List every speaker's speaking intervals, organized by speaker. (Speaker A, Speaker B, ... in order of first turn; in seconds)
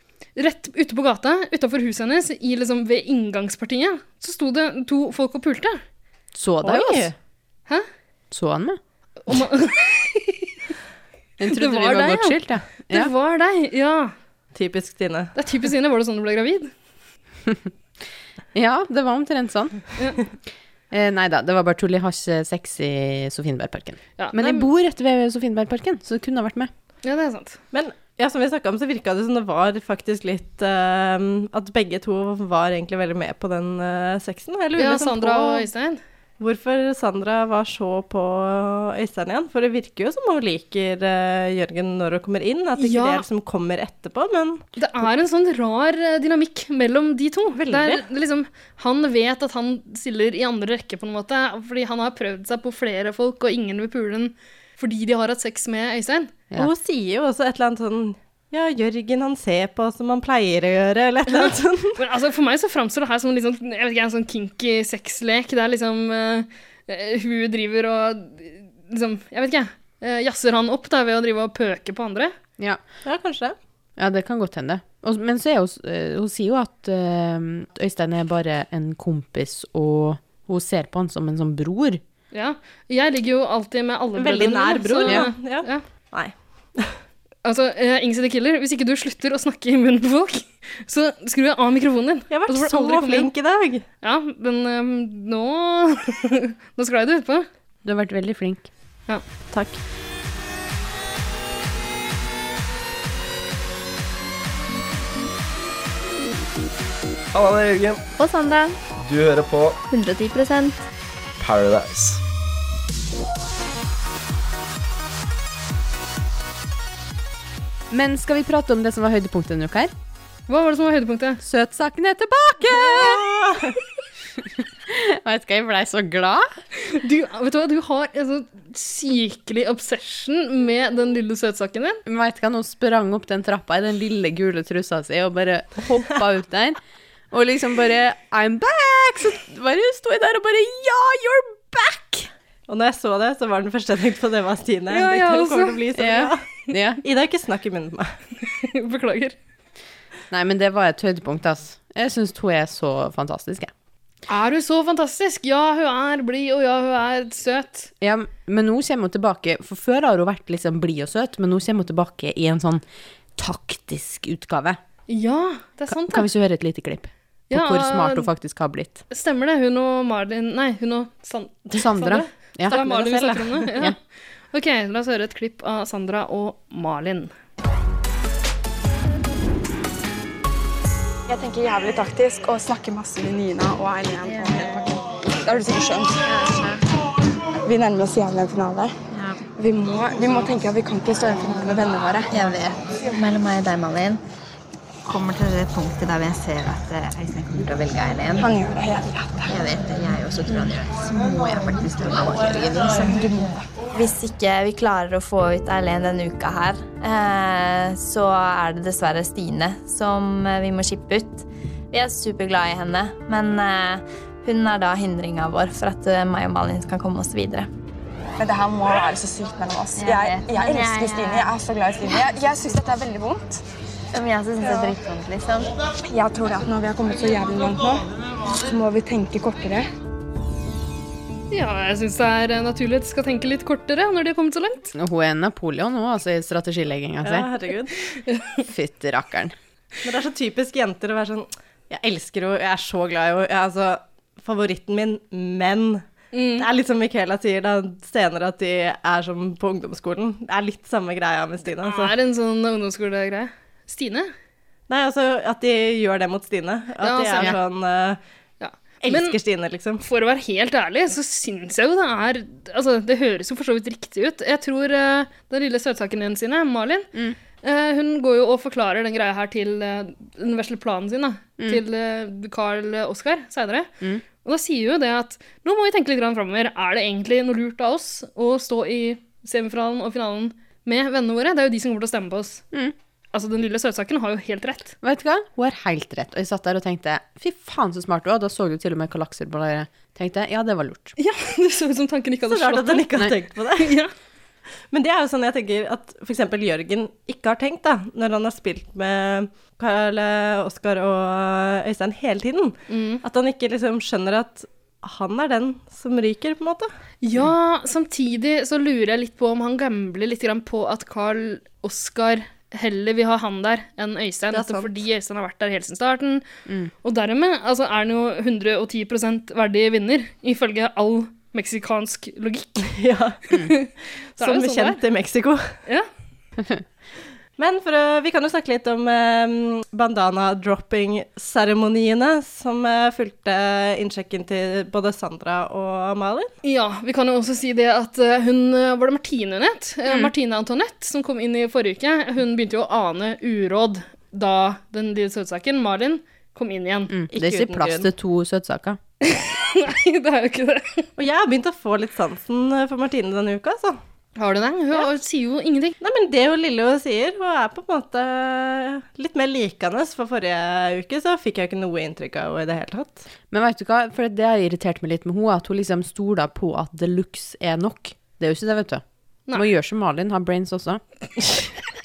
Speaker A: 0.4-5.8, 9.2-10.5, 11.5-14.1, 15.3-16.7, 24.2-24.7, 27.0-27.6, 34.8-36.0, 42.8-43.2, 44.8-56.3, 61.3-72.3, 82.3-85.8, 87.5-93.3, 94.0-97.5, 120.5-121.4, 126.8-132.0, 144.9-145.8, 148.4-149.4, 154.3-157.9, 165.1-166.3, 167.5-168.3, 169.1-174.0, 174.5-177.3, 231.5-234.9, 238.3-238.6, 246.3-246.7, 251.8-254.3, 257.0-257.6, 258.6-259.4, 260.0-267.1, 267.6-273.9, 274.4-282.6, 283.3-284.9, 291.2-293.1, 293.8-294.1, 302.9-303.2, 307.2-316.4, 317.0-322.9, 323.5-325.0, 336.6-347.1, 349.2-351.1, 354.4-355.9
Speaker B: 6.3-7.1, 8.3-8.8, 11.4-13.1, 18.5-19.8, 20.9-26.7, 74.0-82.0, 97.8-98.7, 117.9-119.9, 121.4-123.3, 124.9-126.5, 132.1-136.8, 137.3-142.3, 145.9-147.0, 150.3-153.7, 158.0-162.8, 163.4-164.8, 165.9-169.0, 171.8-173.9, 234.9-237.5, 238.6-239.5, 285.0-291.1, 326.6-326.8, 340.1-340.3, 347.1-349.0, 363.5-371.0
Speaker C: 6.6-7.1, 14.6-15.3, 27.7-35.7, 36.4-44.6, 47.6-48.0, 56.6-62.0, 73.0-73.5, 84.2-87.0, 92.3-93.8, 99.5-99.8, 122.9-123.8, 142.7-146.4, 147.0-148.1, 172.7-173.5, 237.2-238.0, 240.0-246.0, 246.6-252.2, 254.9-258.2, 259.0-260.0, 292.5-294.0, 294.9-306.9, 314.5-315.0, 322.9-323.4, 324.4-325.7, 327.6-336.5, 347.3-348.1, 351.2-354.0, 356.0-363.2
Speaker D: 107.3-108.1, 109.0-109.8, 111.4-112.2
Speaker E: 108.2-108.8, 109.9-110.8, 186.3-186.8, 189.1-189.4, 192.3-194.2, 195.1-198.5, 199.5-203.4, 203.9-217.7, 220.0-221.5, 224.1-225.7
Speaker F: 181.3-186.3, 187.6-188.9, 189.6-192.3, 198.4-199.5, 203.1-203.6, 218.4-223.6, 224.6-224.9, 226.1-228.1, 228.6-229.9